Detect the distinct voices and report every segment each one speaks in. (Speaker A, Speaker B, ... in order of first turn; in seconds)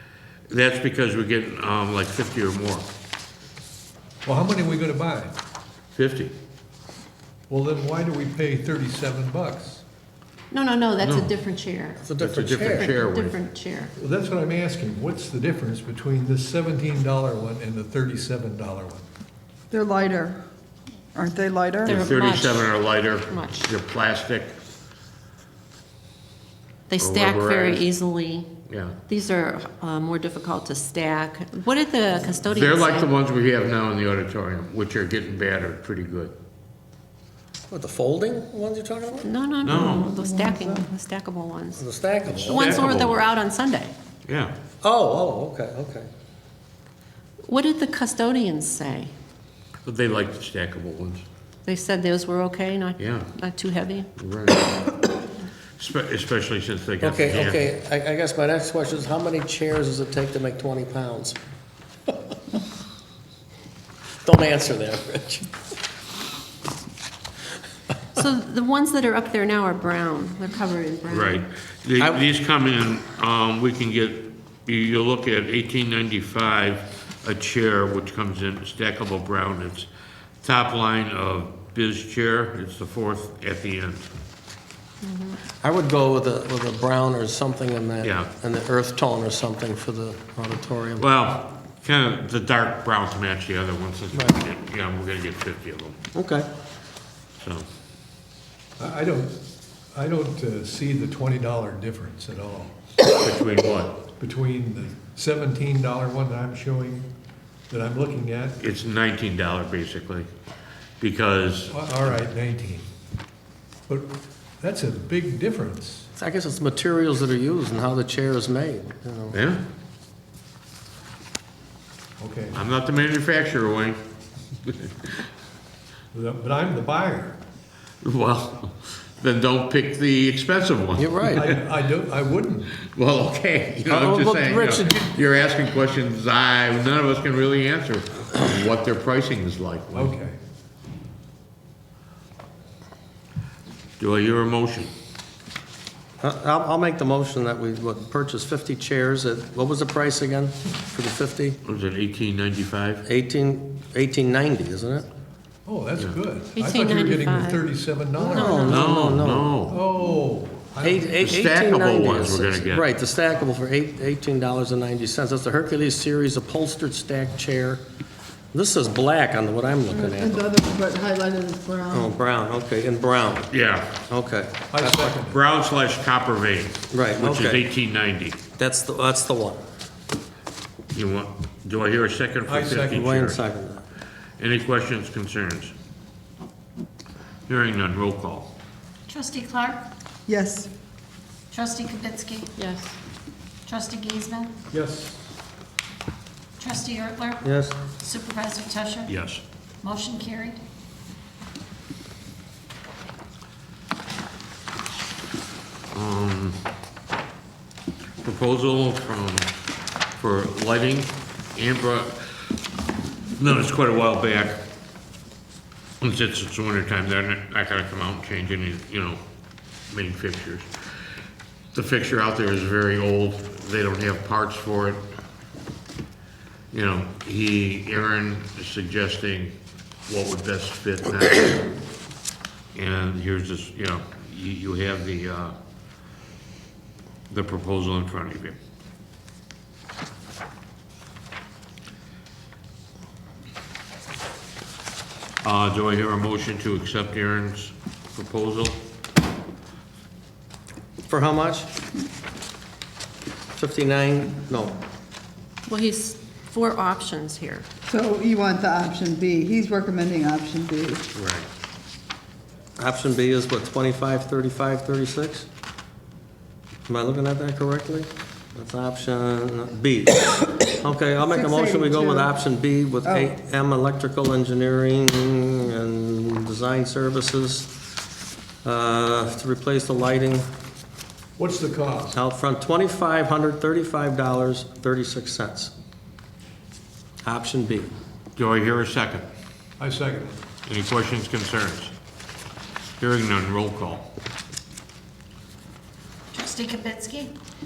Speaker A: 0.5-2.9, 5.9-6.3, 11.0-11.3, 12.2-13.4, 21.8-24.6, 27.0-27.9, 28.7-29.0, 32.4-36.3, 39.6-40.1, 42.5-43.3, 44.3-44.5, 49.9-51.2, 53.0-53.3, 54.2-54.9, 55.8-57.7, 71.1-79.9, 80.4-84.1, 88.0-88.3, 91.0-96.0, 97.4-97.7, 103.2-104.0, 108.6-110.3, 111.0-112.2, 119.3-119.6, 122.5-124.0, 124.7-125.1, 128.0-131.6, 132.9-140.2, 144.0-144.9, 151.7-153.0, 158.7-159.8, 161.2-162.9, 173.5-174.0, 175.3-178.4, 180.9-183.4, 184.4-185.7, 187.5-188.5, 199.1-199.4, 205.9-206.6, 208.2-209.5, 210.2-212.5, 213.4-214.6, 216.0-219.2, 219.9-220.7, 221.7-225.1, 226.7-231.7, 232.7-235.6, 237.3-238.6, 245.4-248.8, 261.1-261.5, 288.4-289.3, 290.7-291.9, 293.0-294.1
Speaker B: 4.2-5.4, 7.5-9.8, 14.0-19.1, 98.8-99.4, 99.9-102.8, 104.2-107.1, 107.7-108.7, 111.7-112.9, 113.9-116.1, 122.2-122.7, 126.1-127.4, 131.4-132.8, 139.9-140.4, 155.7-158.7, 159.7-161.2, 174.7-175.4, 182.5-183.0, 194.7-195.3, 281.4-282.2, 289.8-290.4
Speaker C: 10.5-12.0, 12.6-13.9, 21.8-22.7, 23.3-23.7, 26.9-28.5, 29.1-33.1, 39.2-41.8, 42.5-43.9, 47.4-49.1, 51.6-54.1, 68.1-71.4, 85.0-85.4, 156.6-157.7, 158.2-158.9, 192.6-193.0, 255.7-257.7
Speaker D: 12.0-12.9, 37.7-39.3, 41.8-42.8, 44.8-46.1, 57.0-61.4, 64.2-65.5, 72.0-72.2, 85.6-91.0, 94.1-94.4, 96.1-96.5, 116.2-119.4, 131.0-131.5, 133.9-135.1, 146.2-151.6, 153.1-155.1, 158.2-159.6, 160.8-167.8, 168.5-170.5, 171.9-173.5, 174.1-175.2, 176.9-177.7, 178.6-179.6, 182.9-183.8, 197.4-197.8, 251.1-251.7, 253.6-254.8, 262.8-265.5, 266.9-277.7, 278.6-280.4, 282.1-285.7, 287.2-287.9
Speaker E: 19.7-20.4, 21.1-22.0, 39.8-40.9, 169.9-172.2, 190.3-190.7, 257.9-261.0, 271.2-272.3
Speaker F: 189.1-189.8, 191.5-192.5, 193.7-194.6, 196.6-199.1, 199.8-200.6, 296.3-297.3